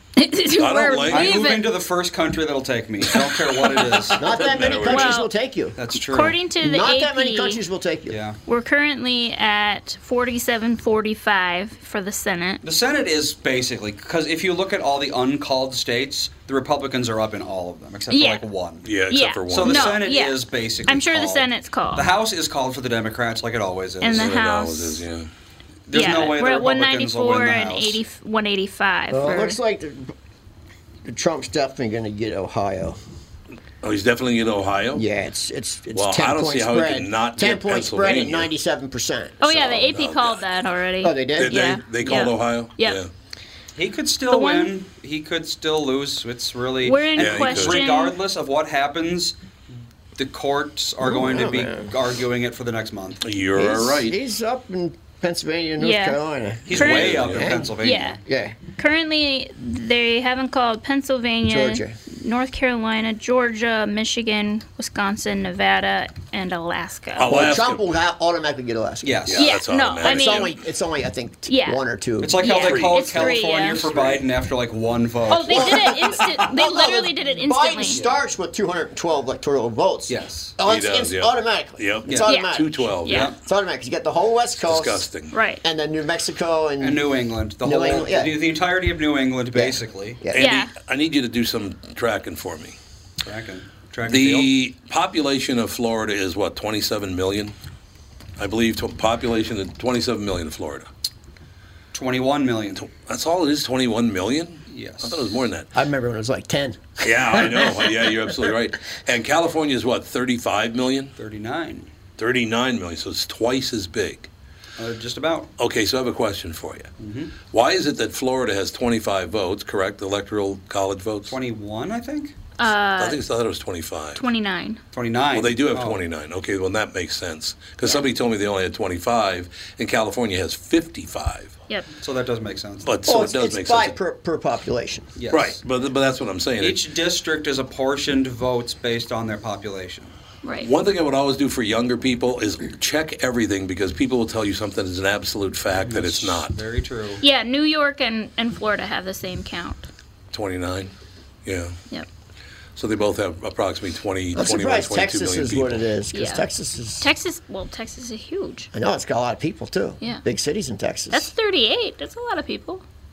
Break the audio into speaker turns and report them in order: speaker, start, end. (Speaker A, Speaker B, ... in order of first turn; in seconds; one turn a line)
Speaker A: 0.2-1.7
Speaker B: 0.5-1.5
Speaker C: 1.1-4.2
Speaker B: 4.1-5.2
Speaker D: 4.2-5.8
Speaker A: 4.8-5.3
Speaker C: 5.8-6.4
Speaker A: 6.0-7.6
Speaker D: 6.6-8.2
Speaker C: 8.1-8.4
Speaker A: 8.4-12.6
Speaker C: 12.6-18.9
Speaker A: 18.1-18.4
Speaker B: 18.8-20.0
Speaker A: 19.1-22.1
Speaker C: 19.5-24.3
Speaker A: 24.0-25.1
Speaker B: 24.0-25.3
Speaker C: 25.9-28.0
Speaker A: 25.9-29.6
Speaker D: 29.1-30.1
Speaker D: 31.0-33.0
Speaker B: 33.8-35.0
Speaker D: 34.9-39.9
Speaker B: 35.9-38.5
Speaker A: 39.4-43.0
Speaker B: 39.9-40.4
Speaker D: 41.0-41.8
Speaker B: 41.4-43.1
Speaker C: 42.0-42.3
Speaker C: 43.8-49.4
Speaker A: 44.3-44.7
Speaker A: 46.8-48.2
Speaker B: 47.2-47.8
Speaker C: 50.1-53.2
Speaker D: 51.0-51.9
Speaker B: 53.2-54.2
Speaker D: 53.5-57.7
Speaker A: 55.8-56.2
Speaker C: 56.7-58.2
Speaker B: 56.7-57.5
Speaker A: 56.7-57.2
Speaker A: 57.8-58.2
Speaker D: 58.3-58.6
Speaker A: 58.8-67.2
Speaker D: 61.5-62.0
Speaker B: 67.2-67.8
Speaker D: 67.3-69.3
Speaker C: 69.0-69.5
Speaker B: 69.3-70.5
Speaker A: 69.3-70.5
Speaker D: 70.0-72.5
Speaker A: 71.5-71.8
Speaker C: 72.2-76.0
Speaker A: 72.4-74.2
Speaker B: 72.7-72.9
Speaker A: 75.3-78.0
Speaker D: 75.5-85.1
Speaker C: 80.1-80.5
Speaker B: 80.7-83.3
Speaker A: 82.3-83.3
Speaker C: 83.1-83.4
Speaker B: 84.6-85.3
Speaker A: 85.3-85.6
Speaker D: 85.6-87.1
Speaker C: 86.8-90.2
Speaker D: 87.6-88.4
Speaker D: 89.5-90.5
Speaker B: 90.3-92.8
Speaker A: 90.3-90.7
Speaker C: 93.2-94.5
Speaker B: 94.0-97.5
Speaker B: 98.4-100.9
Speaker C: 101.9-102.9
Speaker B: 102.8-105.7
Speaker C: 104.7-105.3
Speaker D: 105.7-107.9
Speaker B: 107.0-111.1
Speaker C: 111.2-111.9
Speaker B: 112.2-114.3
Speaker C: 114.8-115.5
Speaker B: 115.6-116.9
Speaker C: 117.0-117.3
Speaker B: 117.5-121.4
Speaker C: 121.2-122.3
Speaker A: 122.6-123.2
Speaker B: 123.0-124.2
Speaker A: 124.2-124.8
Speaker C: 124.9-126.0
Speaker B: 125.3-131.5
Speaker C: 131.9-132.9
Speaker B: 132.8-133.9
Speaker D: 133.1-135.2
Speaker C: 135.2-135.6
Speaker B: 135.3-136.8
Speaker C: 136.6-140.1
Speaker A: 140.4-140.7
Speaker B: 140.6-146.6
Speaker C: 145.7-147.2
Speaker A: 147.2-149.9
Speaker B: 150.3-150.9
Speaker B: 151.4-151.8
Speaker B: 152.8-155.8
Speaker D: 154.3-157.1
Speaker A: 156.1-156.5
Speaker A: 157.0-158.7
Speaker D: 158.7-161.3
Speaker A: 161.1-162.8